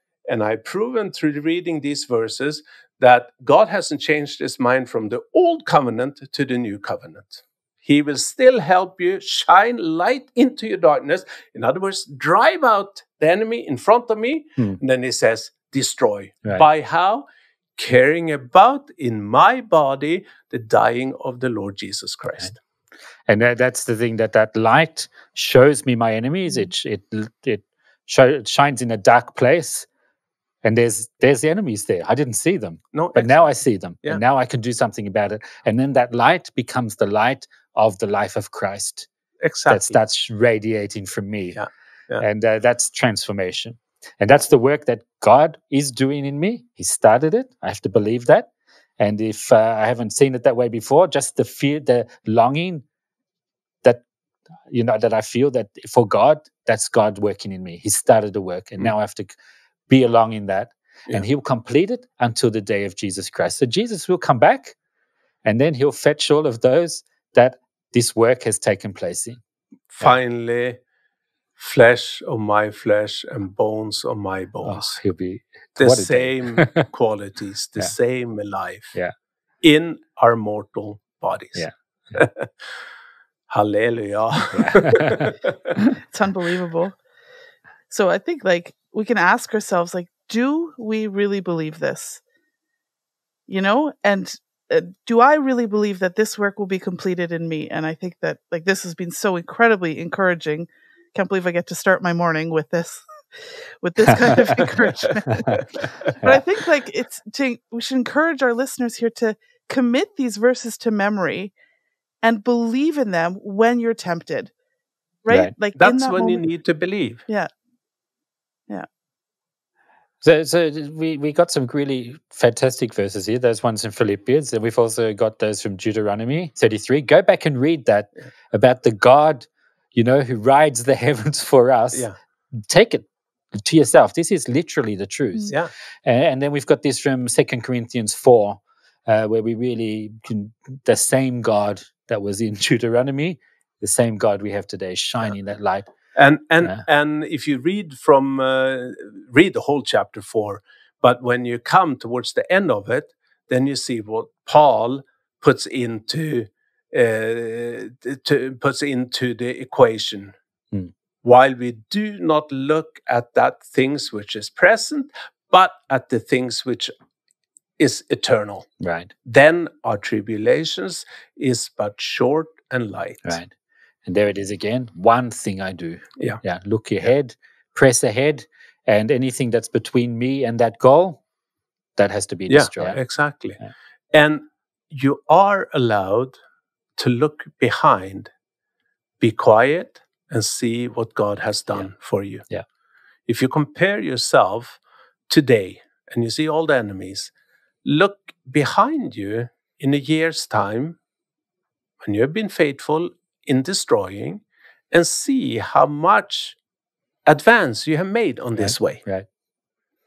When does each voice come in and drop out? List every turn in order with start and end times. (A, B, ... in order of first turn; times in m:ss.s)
0:00.3-0:17.2 A
0:17.8-0:22.6 A
0:23.3-0:29.9 B
0:30.6-0:39.1 B
0:32.9-0:33.5 A
0:39.4-0:40.0 A
0:39.7-0:41.6 B
0:41.6-0:42.2 A
0:42.2-0:52.8 B
0:54.7-0:59.3 B
0:59.9-1:04.8 B
1:05.4-1:09.4 B
1:09.9-1:10.8 A
1:11.6-1:15.0 A
1:14.6-1:16.8 B
1:15.8-1:18.9 A
1:19.6-1:22.5 A
1:23.5-1:25.8 A
1:24.5-1:25.3 B
1:26.1-1:27.0 C
1:27.9-1:32.2 C
1:33.5-1:43.0 C
1:43.8-1:45.6 C
1:45.6-1:45.8 A
1:46.2-1:51.5 C
1:52.2-1:54.5 C
1:55.2-1:56.4 C
1:55.8-1:57.2 A
2:00.2-2:12.1 B
2:12.6-2:13.0 B
2:13.6-2:25.9 B
2:26.2-2:40.3 A
2:41.2-2:46.9 A
2:47.8-2:48.7 A
2:48.8-2:49.1 B
2:49.2-2:53.4 A
2:53.2-2:53.5 B
2:54.0-3:01.2 B
3:02.0-3:03.0 B
3:02.5-3:03.6 A
3:04.1-3:06.4 A
3:07.0-3:08.3 A
3:09.2-3:12.4 A
3:13.3-3:17.3 A
3:17.8-3:21.0 A
3:22.0-3:26.6 A
3:27.2-3:29.0 A
3:28.6-3:29.3 B